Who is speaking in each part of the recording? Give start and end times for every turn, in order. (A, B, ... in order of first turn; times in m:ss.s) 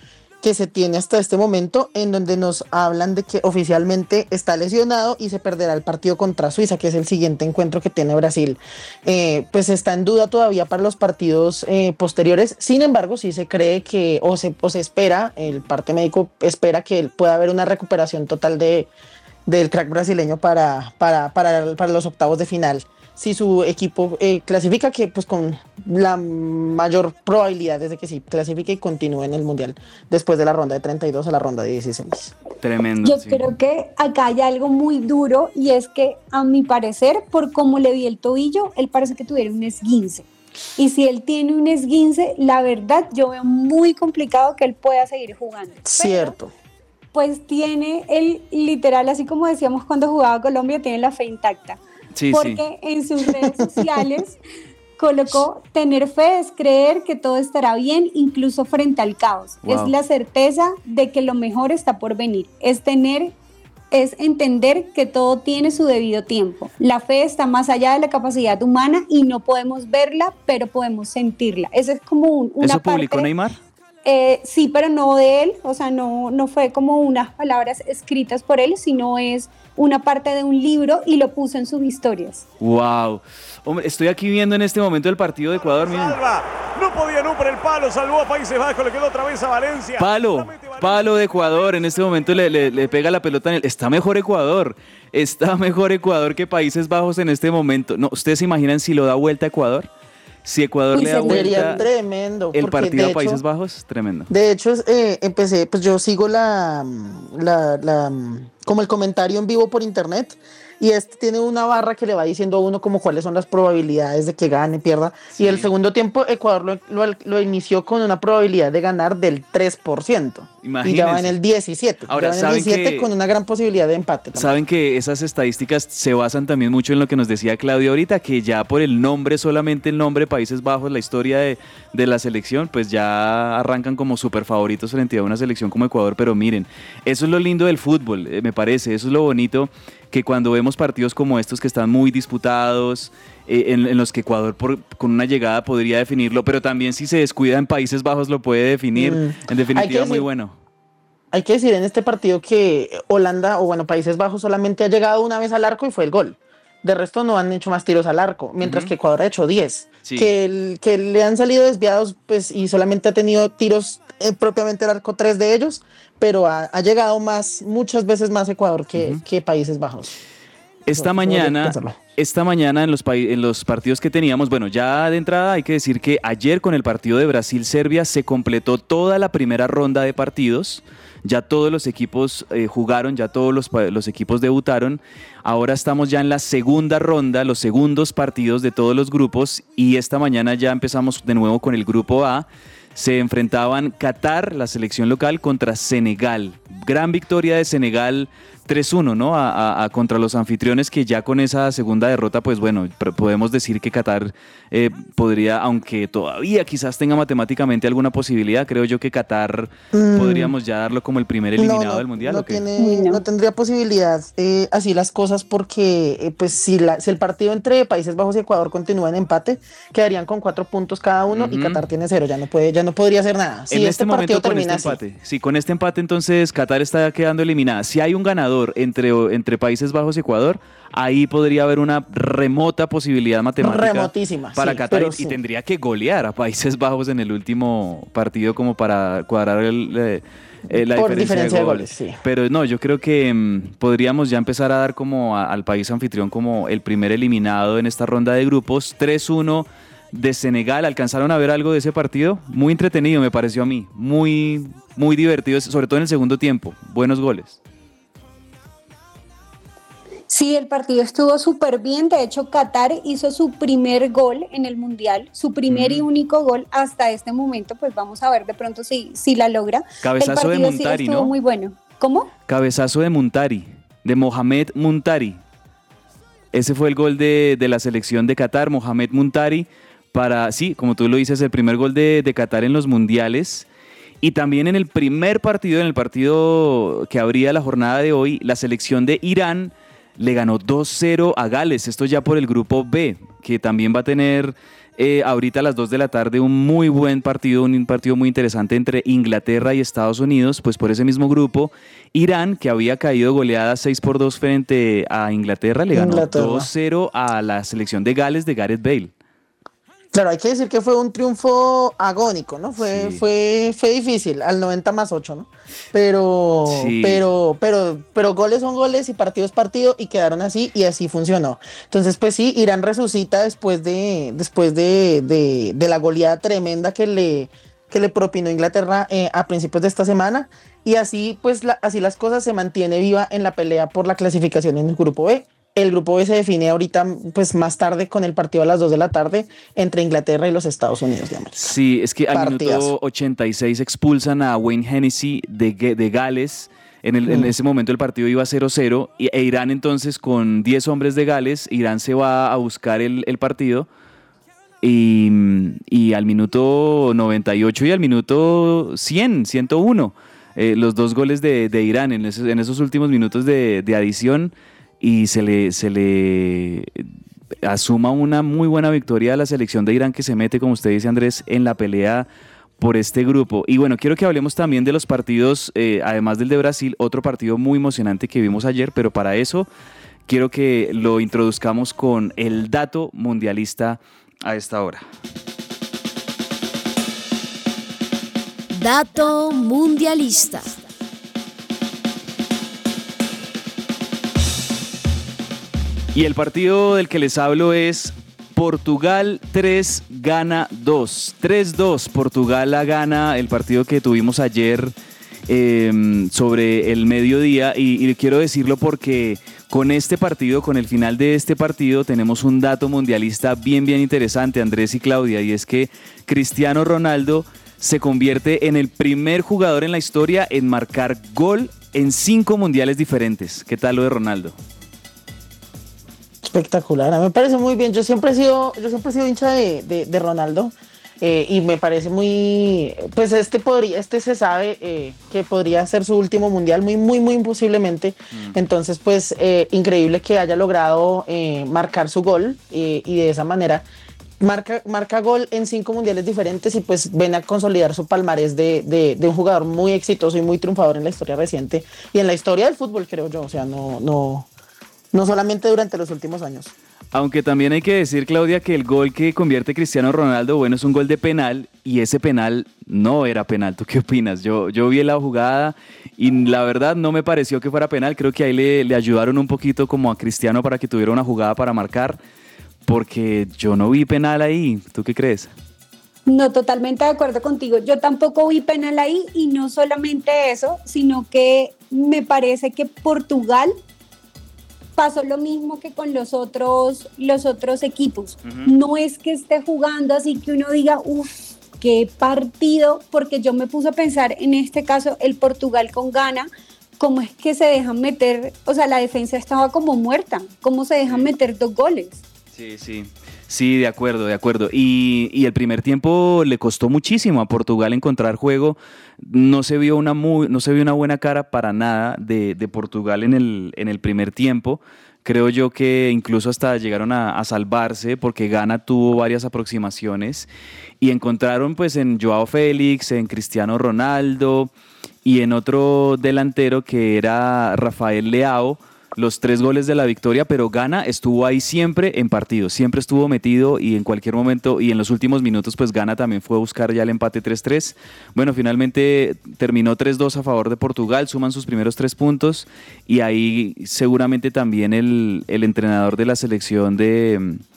0:00.4-0:18.9 A
0:19.4-0:32.3 A
0:32.6-0:33.5 B
0:33.0-0:46.4 C
0:45.8-0:46.5 A
0:47.1-0:51.8 C
0:52.1-0:52.6 B
0:52.3-0:54.4 C
0:53.2-0:54.1 A
0:55.0-1:03.3 C
0:59.6-0:59.9 B
1:03.9-1:13.3 C
1:12.6-1:13.6 B
1:14.0-1:22.4 C
1:22.6-1:26.2 B
1:25.6-1:33.0 D
1:30.0-1:39.9 B
1:40.4-1:41.8 B
1:40.9-1:41.8 C
1:41.0-1:43.4 A
1:42.5-1:44.3 B
1:44.3-2:04.5 A
1:55.4-1:55.7 B
2:00.6-2:01.3 B
2:02.1-2:03.1 B
2:04.3-2:30.6 B
2:28.9-2:30.2 A
2:31.3-2:50.2 A
2:38.6-2:38.9 B
2:40.0-2:40.3 B
2:49.0-2:49.2 B
2:50.8-3:32.6 B
2:50.9-2:52.0 A
3:29.9-3:30.5 A
3:31.6-3:45.0 A
3:32.8-3:33.2 C
3:41.3-3:41.8 B
3:43.7-4:17.6 B
3:53.6-3:55.4 A
4:00.7-4:02.2 A
4:20.3-4:32.3 C
4:25.7-4:26.0 B
4:30.0-4:31.3 B
4:32.5-4:35.4 B
4:36.5-4:43.7 B
4:44.2-5:09.1 B
5:05.9-5:06.7 A
5:10.1-5:41.7 A
5:12.8-5:13.2 B
5:16.6-5:17.2 B
5:41.6-5:53.9 B
5:42.3-5:42.9 A
5:47.3-5:47.5 A
5:54.8-6:07.1 B
6:07.6-6:12.3 B
6:12.8-6:19.7 B
6:20.3-6:25.0 B
6:28.7-6:30.8 E
6:36.1-6:44.9 B
6:45.5-7:04.6 B
7:06.4-7:23.8 A
7:24.4-7:34.5 A
7:35.1-7:36.7 A
7:37.1-7:52.2 B
7:52.8-7:55.5 B
7:56.3-8:03.7 C
8:05.0-8:22.2 C
8:22.5-8:40.5 B
8:41.0-8:44.7 B
8:45.2-9:07.6 B